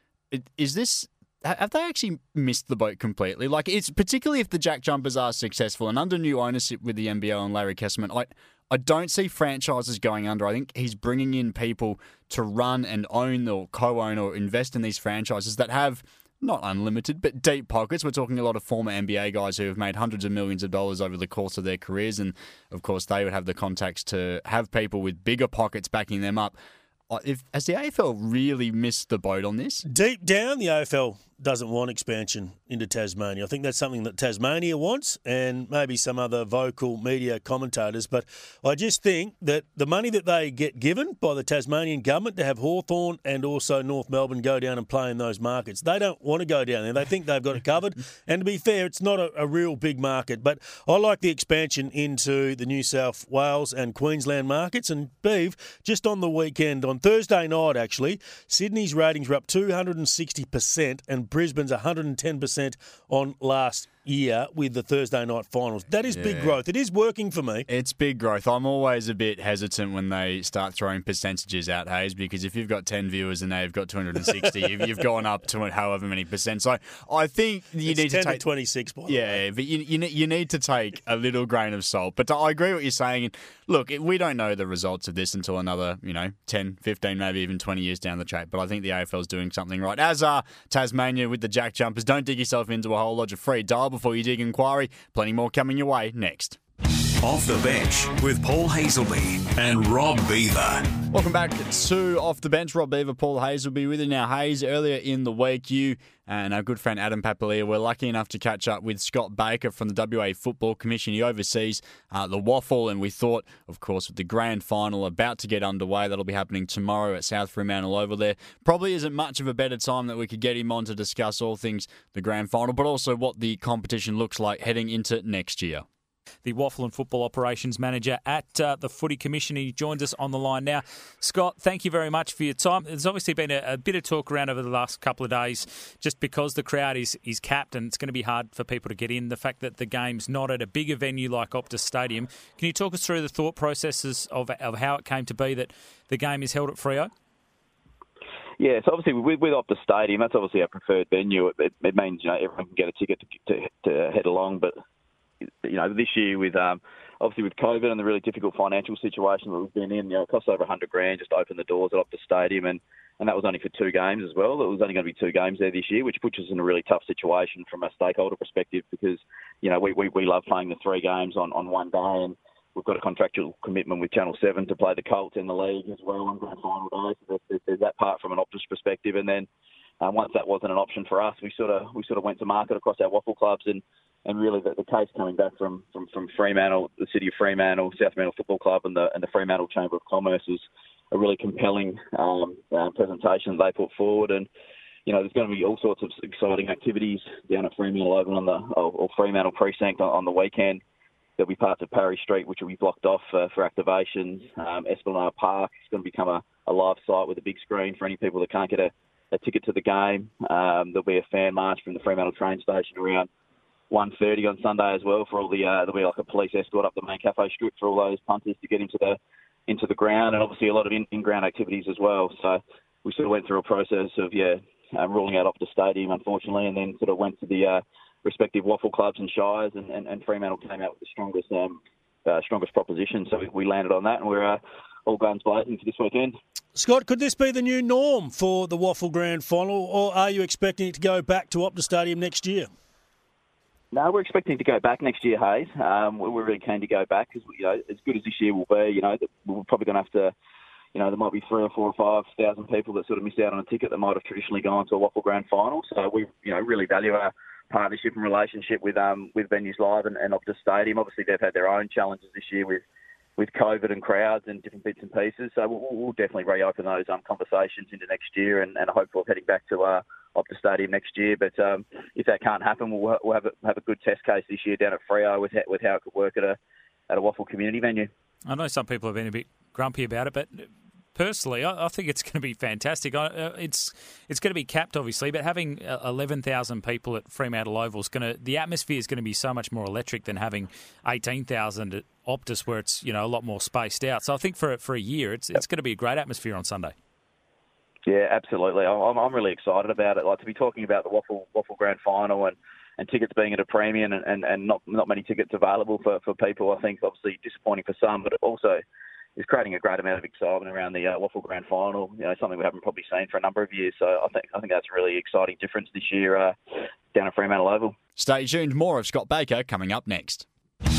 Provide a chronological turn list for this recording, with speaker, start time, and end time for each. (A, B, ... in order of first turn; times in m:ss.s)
0:00.3-0:26.6 A
0:27.1-0:29.8 A
0:29.9-1:07.7 B
1:06.1-1:06.6 A
1:07.7-1:18.4 A
1:17.9-1:19.4 B
1:19.1-1:36.6 A
1:37.2-1:40.8 C
1:41.1-2:05.8 A
2:06.4-2:27.1 D
2:28.6-2:34.8 E
2:35.6-2:59.5 E
3:00.0-3:14.5 E
3:15.1-3:20.8 E
3:21.4-3:33.3 E
3:33.9-3:56.4 E
3:56.8-4:02.7 B
4:03.9-4:10.3 E
4:11.0-4:22.8 E
4:23.4-4:36.6 E
4:37.1-4:38.1 E
4:38.5-4:56.9 D
4:58.1-5:08.8 E
5:09.4-5:16.6 E
5:17.1-5:18.0 E
5:18.2-5:20.5 A